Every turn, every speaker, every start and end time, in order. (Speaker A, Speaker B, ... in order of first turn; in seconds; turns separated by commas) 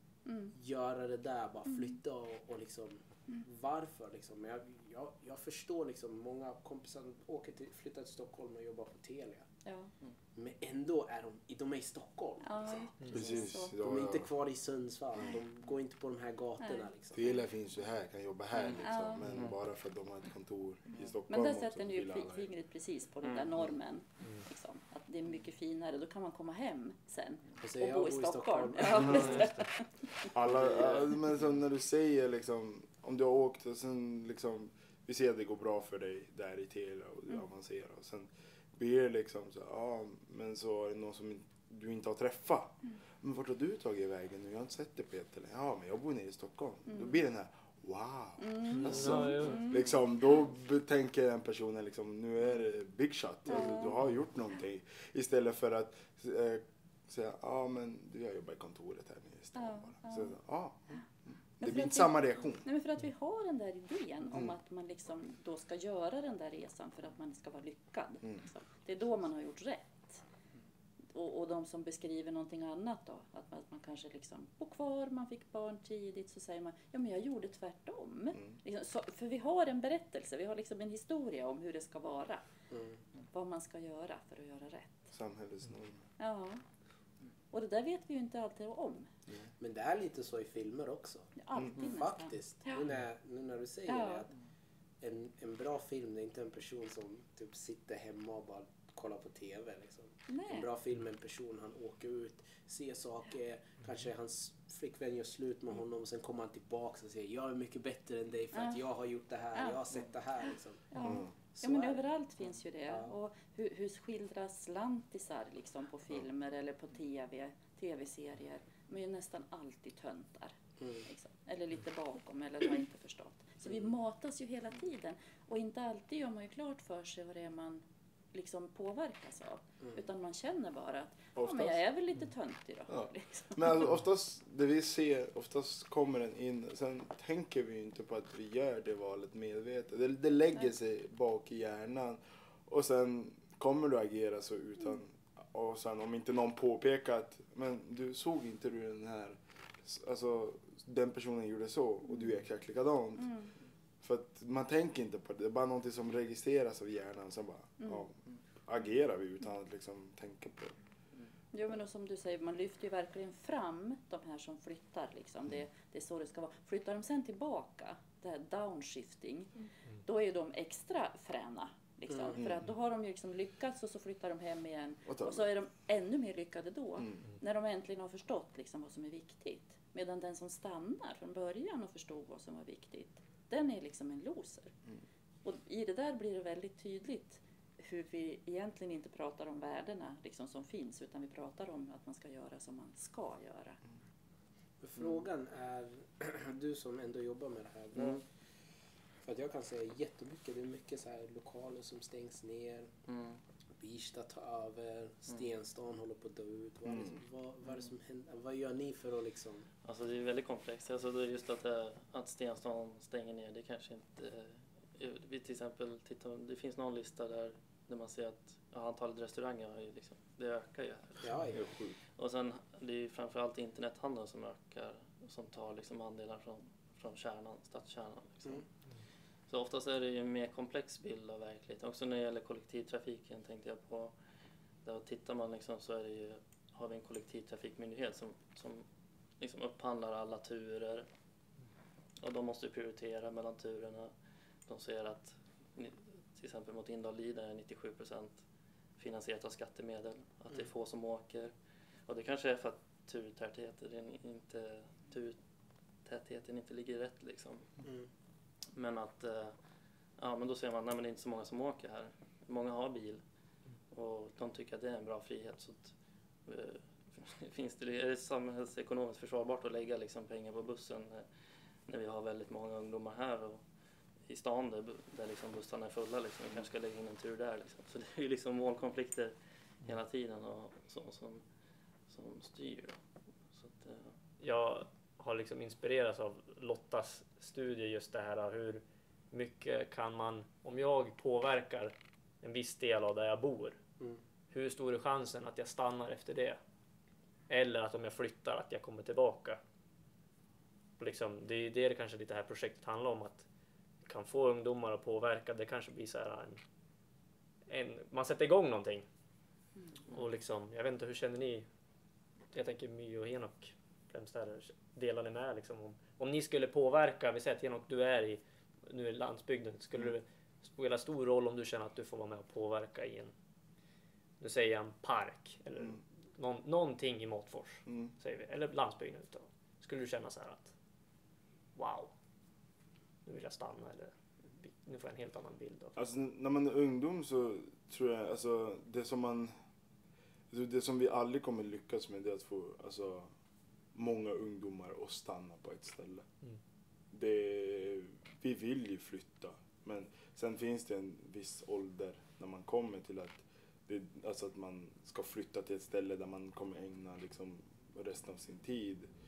Speaker A: 0.3-0.6, Speaker B: 0.5-9.5, Speaker A: 9.7-9.9, Speaker B: 10.4-17.2, Speaker A: 12.4-13.8, Speaker C: 13.1-14.3, Speaker A: 16.6-16.9, Speaker C: 17.1-22.5, Speaker A: 18.7-19.3, Speaker D: 19.2-19.5, Speaker A: 21.3-30.3, Speaker B: 27.6-29.6, Speaker E: 29.4-29.6, Speaker C: 30.2-61.0, Speaker A: 46.9-47.1, Speaker A: 48.4-49.8, Speaker E: 48.7-49.8, Speaker A: 53.5-54.0, Speaker A: 59.5-60.4, Speaker C: 61.6-62.6, Speaker A: 61.6-70.2, Speaker A: 71.1-82.5, Speaker B: 82.7-83.0, Speaker A: 83.3-85.1, Speaker C: 85.1-86.0, Speaker A: 86.2-86.6, Speaker A: 87.5-89.1, Speaker B: 89.6-94.3, Speaker A: 91.4-92.9, Speaker A: 93.9-94.3, Speaker B: 95.0-110.9, Speaker A: 100.3-100.7, Speaker A: 108.5-108.8, Speaker A: 109.5-109.8, Speaker A: 110.9-133.8, Speaker C: 111.0-111.3, Speaker B: 111.5-112.0, Speaker B: 112.9-113.1, Speaker B: 120.8-121.0, Speaker C: 131.4-131.8, Speaker C: 132.9-153.3, Speaker A: 153.2-153.5, Speaker C: 154.0-160.8, Speaker A: 157.8-158.1, Speaker A: 161.5-169.5, Speaker A: 170.1-184.8, Speaker B: 172.1-172.4, Speaker C: 172.3-172.7, Speaker C: 175.1-175.5, Speaker C: 177.0-177.2, Speaker A: 185.4-193.8, Speaker B: 194.8-198.2, Speaker D: 197.9-198.2, Speaker B: 199.2-202.9, Speaker D: 203.1-203.4, Speaker B: 203.8-209.7, Speaker C: 206.8-207.2, Speaker D: 209.8-221.6, Speaker B: 221.2-221.7, Speaker C: 221.5-222.0, Speaker D: 222.2-228.7, Speaker D: 229.5-234.2, Speaker D: 234.8-238.8, Speaker D: 239.4-241.1, Speaker D: 242.2-244.1, Speaker D: 244.6-248.4, Speaker D: 249.0-251.6, Speaker D: 252.1-255.4, Speaker D: 256.0-257.8, Speaker D: 258.8-259.6, Speaker D: 260.2-263.2, Speaker D: 263.9-273.6, Speaker D: 274.2-281.4, Speaker D: 282.1-284.2, Speaker E: 284.4-293.8, Speaker E: 294.5-296.6, Speaker E: 297.5-299.6, Speaker E: 301.0-303.4, Speaker E: 304.0-306.6, Speaker E: 307.7-309.1, Speaker E: 310.1-311.7, Speaker E: 312.5-323.3, Speaker E: 324.4-330.7, Speaker C: 327.9-328.1, Speaker E: 331.8-332.1, Speaker E: 333.2-335.9, Speaker C: 336.0-339.5, Speaker C: 340.5-343.3, Speaker C: 343.9-346.3, Speaker C: 347.1-359.1